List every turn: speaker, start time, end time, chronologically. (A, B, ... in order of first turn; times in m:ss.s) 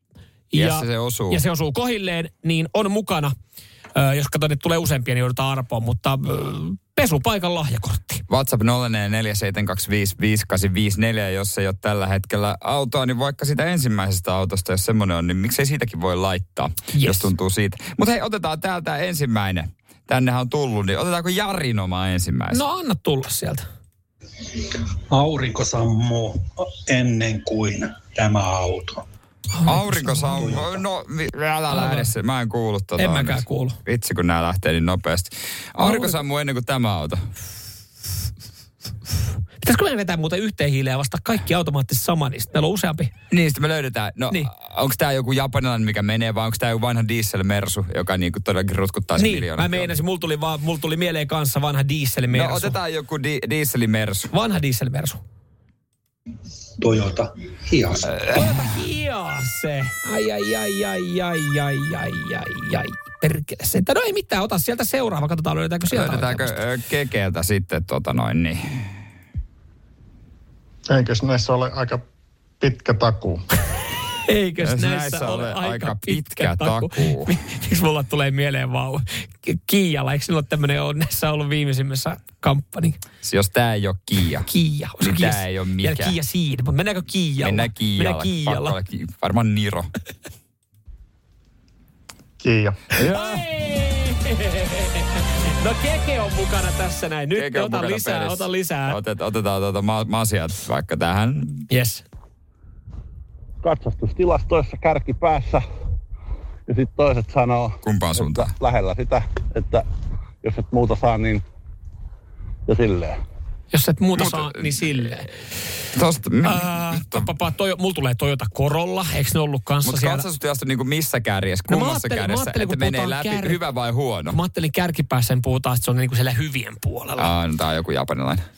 0:00.5-0:03.3 A
0:00.5-0:01.4 B
0:03.9-0:08.2 A
0:08.3-0:22.6 B
0:16.9-0:17.3 A
0:22.5-0:23.6 A
0:25.1-0:29.0 C
0:29.5-0:30.2 A
0:29.6-0:37.3 B
0:30.4-0:30.7 C
0:31.7-0:32.1 A
0:33.0-0:33.8 A
0:35.8-0:36.2 A
0:39.6-0:43.1 A
0:43.3-0:49.9 B
0:49.2-0:52.8 A
0:52.3-0:54.3 B
0:54.3-0:55.2 A
0:56.8-0:58.1 C
0:58.0-0:58.7 B
0:58.3-1:06.6 A
1:05.9-1:08.9 B
1:10.9-1:12.0 D
1:12.6-1:13.4 D
1:14.2-1:23.0 A
1:14.6-1:17.3 B
1:23.2-1:24.5 B
1:24.4-1:28.8 A
1:25.0-1:26.2 B
1:27.4-1:29.9 B
1:32.4-1:32.8 D
1:33.0-1:33.4 B
1:33.0-1:39.0 A
1:37.3-1:41.6 B
1:41.7-1:42.0 A
1:43.6-1:45.6 E
1:46.7-1:49.8 E
1:47.8-1:48.5 B
1:50.4-1:51.4 E
1:52.7-1:53.2 E
1:53.7-1:55.3 A
1:54.1-1:55.2 B
1:55.9-1:57.3 B
1:56.4-2:00.2 A
1:59.8-2:04.4 B
2:01.7-2:03.6 A
2:04.3-2:07.3 A
2:07.2-2:08.4 B